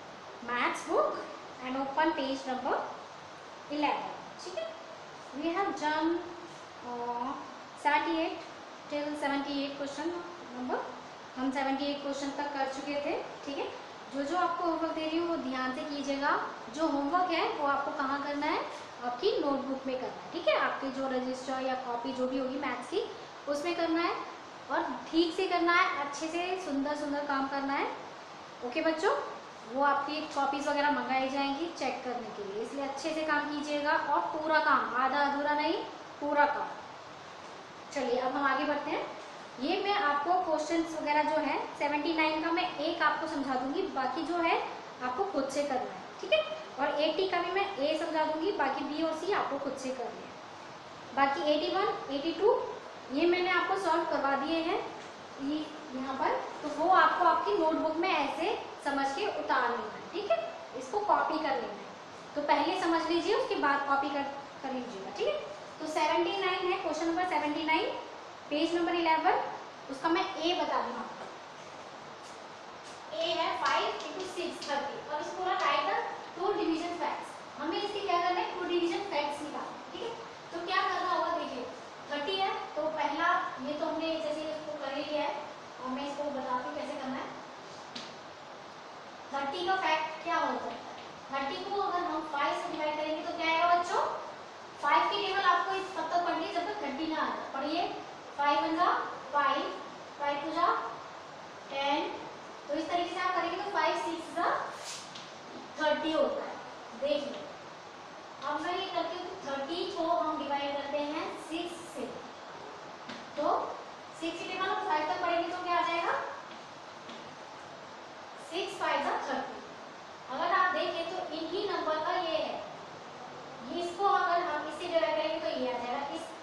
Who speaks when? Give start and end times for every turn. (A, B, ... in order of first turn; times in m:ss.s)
0:00.4-0:02.8 A
0:03.7-0:04.7 A
0:05.3-0:10.8 A
0:11.3-0:27.9 A
0:28.6-0:36.7 A
0:37.9-0:39.0 A
0:39.6-0:50.4 A
0:51.1-0:54.8 A
0:55.4-1:07.9 A
1:08.5-1:11.3 A
1:13.1-1:27.3 A
1:29.3-1:34.1 A
1:34.8-1:40.8 A
1:41.7-1:44.6 A
1:45.7-1:47.5 A
1:48.4-1:52.2 A
1:53.3-1:56.2 A
1:58.4-1:59.7 A
2:00.3-2:02.6 A
2:03.6-2:06.3 A